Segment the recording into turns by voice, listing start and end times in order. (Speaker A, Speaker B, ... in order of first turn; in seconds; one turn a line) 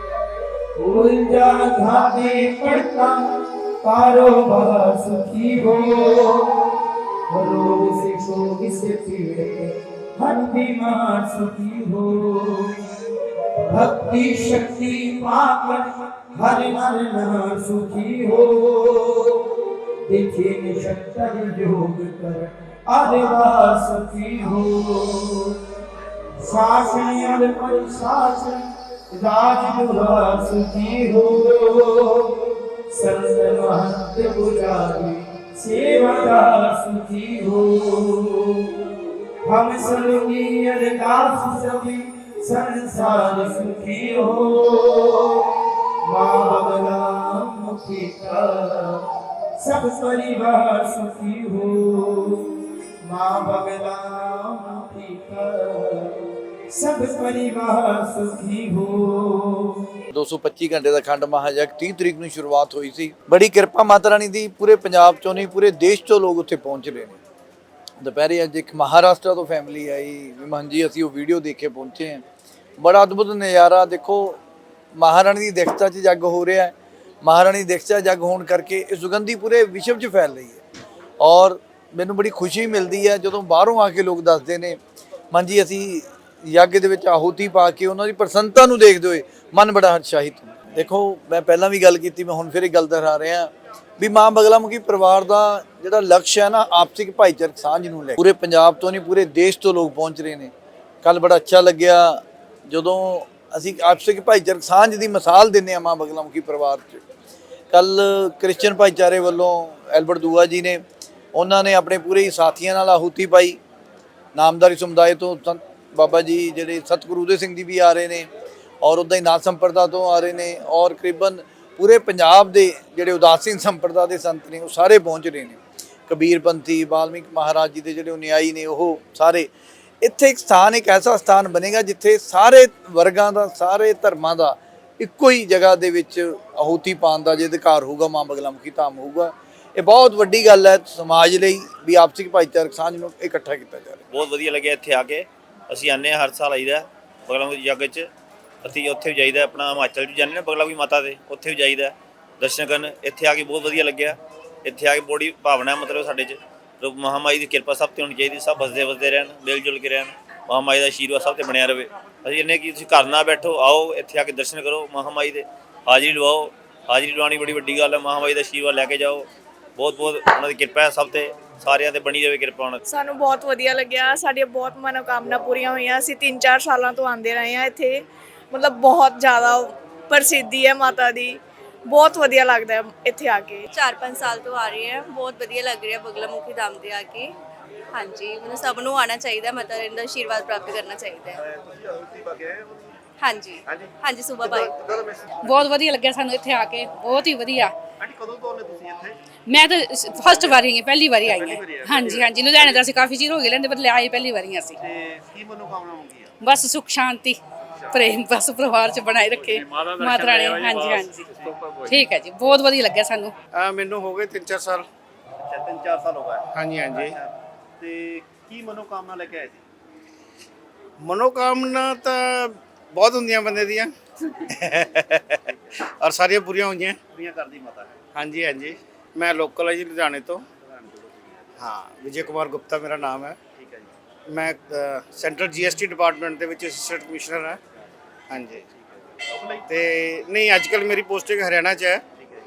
Speaker A: 0.8-6.5
Speaker A: 7.3-12.8
Speaker A: 13.7-19.4
Speaker A: 20.1-25.6
Speaker A: 26.4-32.4
Speaker A: 32.9-38.8
Speaker A: 39.4-45.4
Speaker A: 46.0-49.0
Speaker A: 49.6-52.5
Speaker A: 53.0-56.1
Speaker A: 56.7-59.8
Speaker B: 60.1-67.2
Speaker B: 68.0-72.2
Speaker B: 72.8-74.4
Speaker B: 75.0-76.7
Speaker B: 77.2-80.6
Speaker B: 81.2-84.8
Speaker B: 85.3-100.5
Speaker B: 101.0-107.0
Speaker B: 107.7-110.8
Speaker B: 111.3-113.6
Speaker B: 114.3-118.3
Speaker B: 118.8-129.5
Speaker B: 130.0-144.0
Speaker C: 144.1-148.1
Speaker C: 148.6-172.8
Speaker D: 172.9-183.6
Speaker E: 183.7-187.3
Speaker E: 187.9-191.4
Speaker F: 191.4-192.9
Speaker E: 193.2-194.7
Speaker F: 193.7-195.3
Speaker G: 195.4-197.7
Speaker F: 198.0-199.2
Speaker G: 199.5-204.8
Speaker F: 200.3-200.6
Speaker F: 201.2-202.8
Speaker F: 204.8-206.3
Speaker G: 206.4-207.4
Speaker G: 207.9-213.3
Speaker F: 209.3-209.6
Speaker F: 210.2-212.0
Speaker H: 213.5-214.8
Speaker F: 215.5-219.6
Speaker H: 216.5-217.1
Speaker H: 221.0-223.9
Speaker H: 224.5-227.0
Speaker F: 227.1-228.0
Speaker H: 228.1-230.4
Speaker F: 230.6-231.4
Speaker H: 231.6-233.4
Speaker F: 233.6-233.9
Speaker H: 234.3-237.6
Speaker H: 238.3-238.6
Speaker F: 238.8-239.6
Speaker H: 239.7-242.0